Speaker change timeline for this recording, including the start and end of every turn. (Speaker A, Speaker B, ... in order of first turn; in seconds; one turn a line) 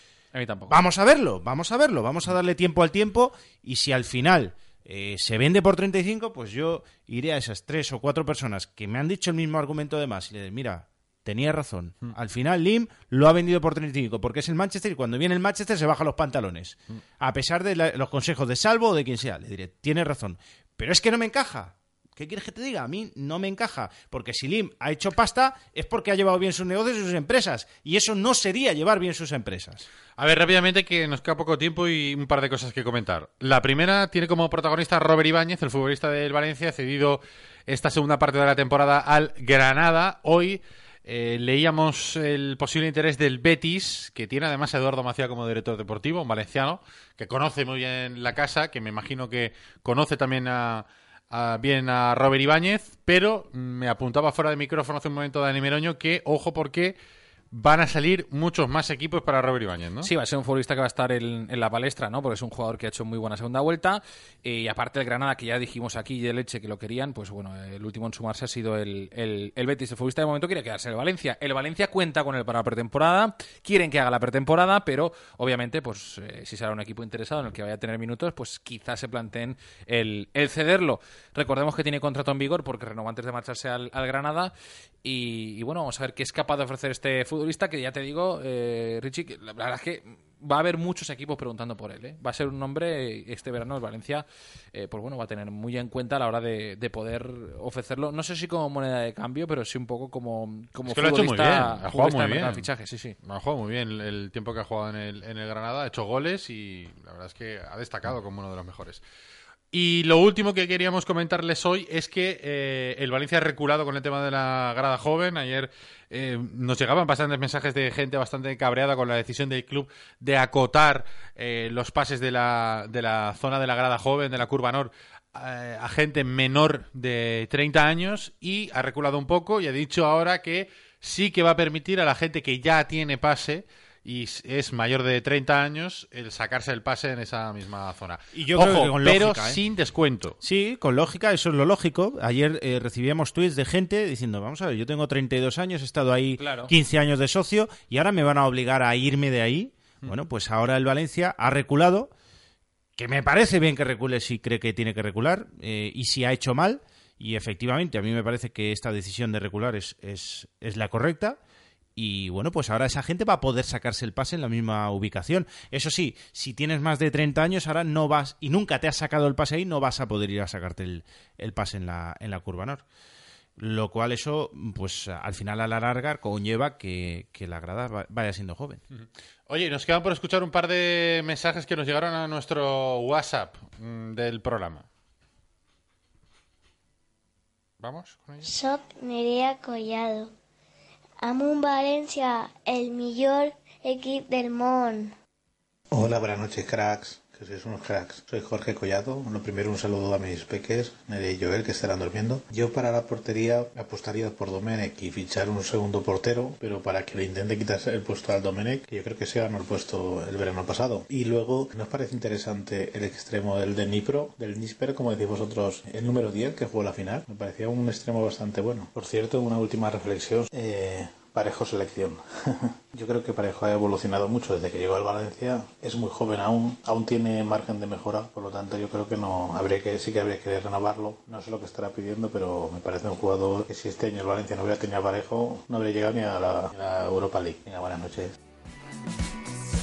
Speaker A: 0.3-0.8
Speaker B: 0.7-29.9
Speaker C: 30.2-57.0
Speaker C: 57.5-60.1
Speaker A: 60.0-84.5
Speaker A: 85.0-103.2
Speaker C: 100.9-102.7
Speaker C: 103.2-109.0
Speaker C: 109.7-140.4
Speaker B: 138.3-139.6
Speaker B: 140.4-152.1
Speaker A: 146.4-146.7
Speaker B: 152.9-161.4
Speaker B: 161.9-172.8
Speaker B: 173.6-178.8
Speaker C: 178.9-184.8
Speaker C: 187.8-188.5
Speaker D: 188.4-190.3
Speaker D: 191.2-195.1
Speaker E: 195.9-238.3